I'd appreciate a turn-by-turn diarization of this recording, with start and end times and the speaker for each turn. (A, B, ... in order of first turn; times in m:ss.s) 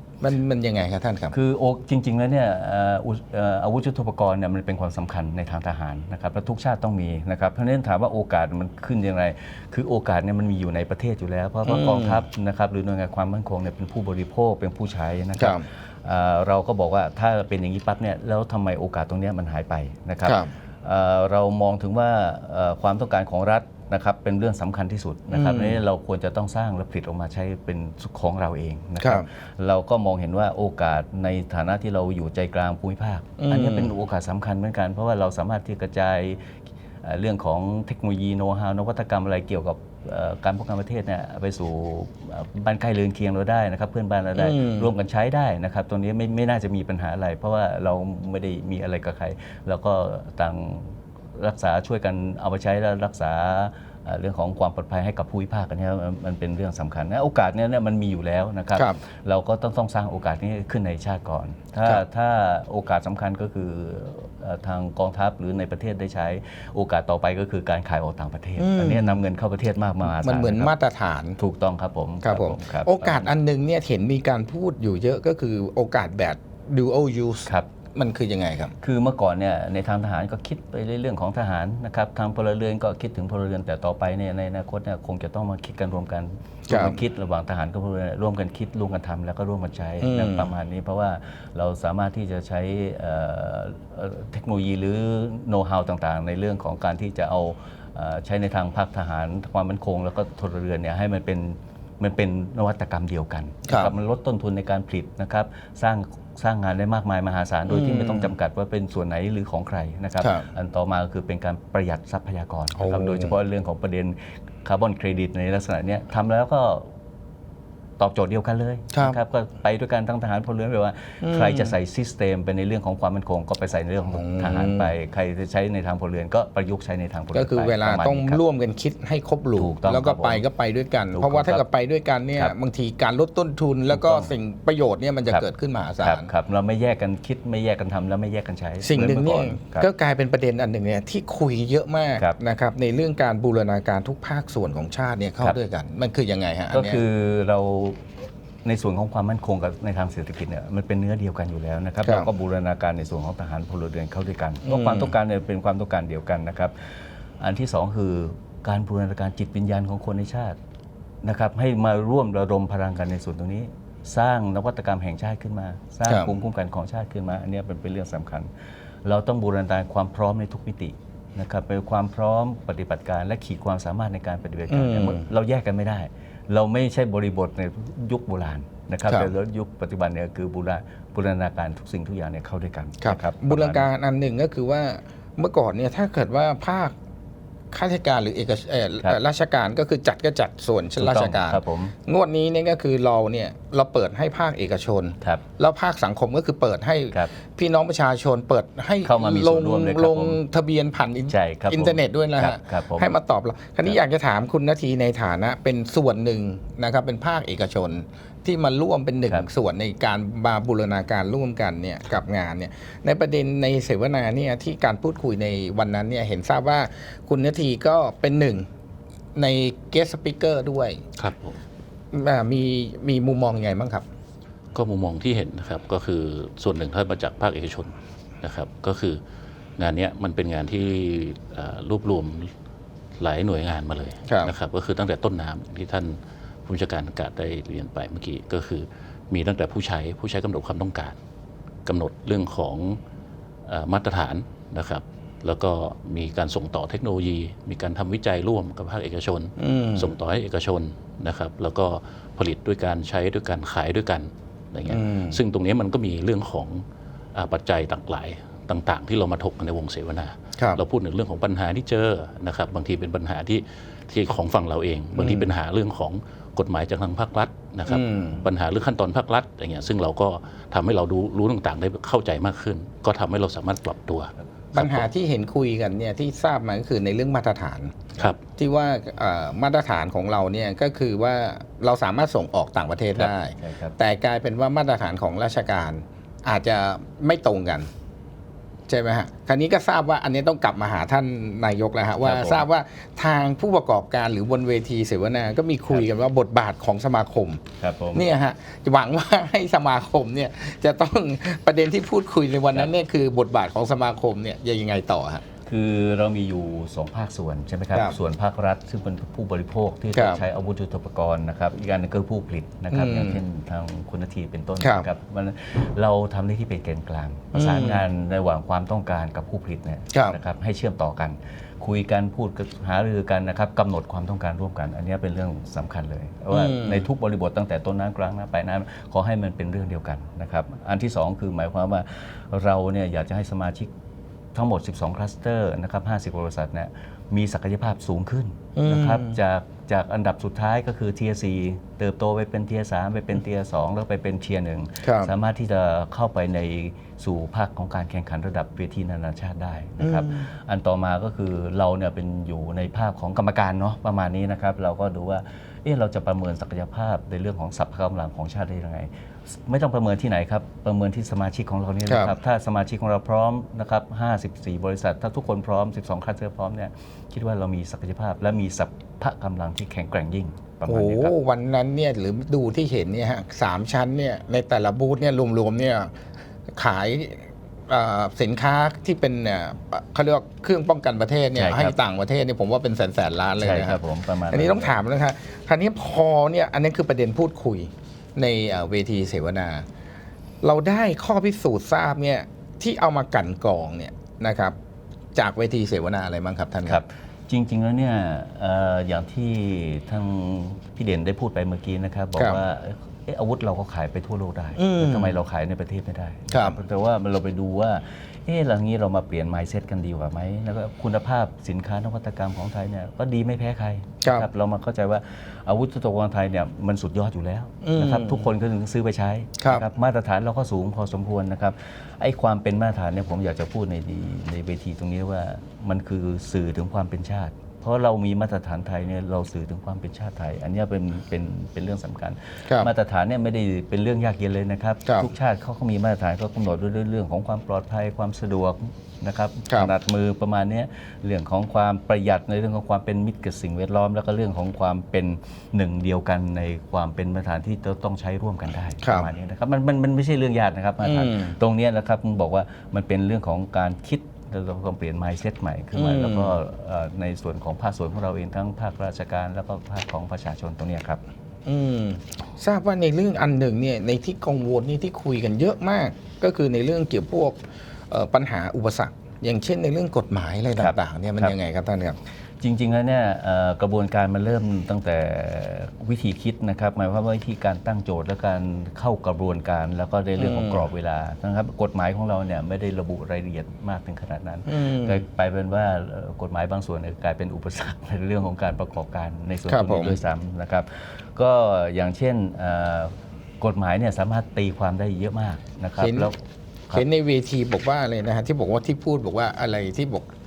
0:00.2-0:01.3 A
0:01.3-1:10.7 B
0:11.7-0:12.2 A
0:15.4-0:15.6 A
0:20.2-0:20.5 A
0:25.3-0:25.8 A
0:29.0-0:29.2 A
0:33.4-0:33.9 A
0:44.4-0:44.9 A
1:08.6-1:09.2 A
1:10.1-1:11.4 A
1:11.4-1:13.3 B
1:12.2-1:18.7 A
1:18.8-1:56.9 B
1:26.7-1:27.0 A
1:30.0-1:30.5 A
1:43.7-1:43.9 A
1:47.7-1:48.3 A
1:50.2-1:50.5 A
1:52.8-1:53.4 A
1:58.0-2:08.4 B
1:58.9-1:59.2 A
2:01.2-2:01.8 A
2:04.1-2:04.9 A
2:07.3-2:16.3 A
2:09.6-2:10.4 B
2:11.1-2:11.6 B
2:13.9-2:14.3 B
2:16.0-2:19.9 B
2:18.8-2:27.0 A
2:26.7-2:28.1 B
2:28.6-2:40.6 B
2:34.6-2:35.1 A
2:41.2-2:48.5 B
2:46.1-2:46.4 A
2:49.0-3:03.9 B
2:54.7-2:55.2 A
3:03.0-3:07.0 A
3:07.7-3:38.7 A
3:11.0-3:12.0 B
3:19.0-3:20.4 B
3:21.3-3:23.1 B
3:39.4-3:41.0 A
3:41.2-3:41.6 C
3:42.1-3:44.1 A
3:44.7-3:49.2 C
3:49.8-3:52.5 C
3:53.2-4:01.2 C
3:54.3-3:54.5 A
4:01.9-4:03.0 C
4:03.6-4:35.1 C
4:09.6-4:10.1 A
4:14.9-4:15.4 A
4:20.6-4:20.8 A
4:25.1-4:25.5 A
4:27.9-4:28.4 A
4:34.7-4:47.9 A
4:43.2-4:44.0 B
4:48.9-5:05.4 A
4:52.2-4:52.6 B
4:57.8-4:58.2 B
5:05.6-5:33.9 B
5:10.1-5:10.4 A
5:12.9-5:13.4 A
5:14.8-5:15.1 A
5:17.5-5:18.0 A
5:20.1-5:20.4 A
5:26.5-5:27.0 A
5:34.5-6:11.4 B
5:38.8-5:39.4 A
5:45.0-5:45.3 A
5:50.0-5:50.5 A
6:02.1-6:02.4 A
6:10.9-6:29.9 A
6:21.6-6:22.0 B
6:23.6-6:25.0 B
6:30.6-6:34.8 A
6:35.4-6:37.0 A
6:36.9-7:41.2 B
6:44.8-6:45.4 A
6:46.5-6:46.8 A
6:57.8-6:58.5 A
6:59.6-6:59.8 A
7:15.0-7:15.3 A
7:29.0-7:29.3 A
7:31.0-7:31.6 A
7:35.9-7:36.6 A
7:41.6-7:52.2 A
7:50.8-7:51.5 B
7:52.6-8:16.4 B
8:00.4-8:00.9 A
8:04.7-8:05.2 A
8:09.7-8:10.2 A
8:16.0-8:16.3 A
8:16.9-8:20.3 A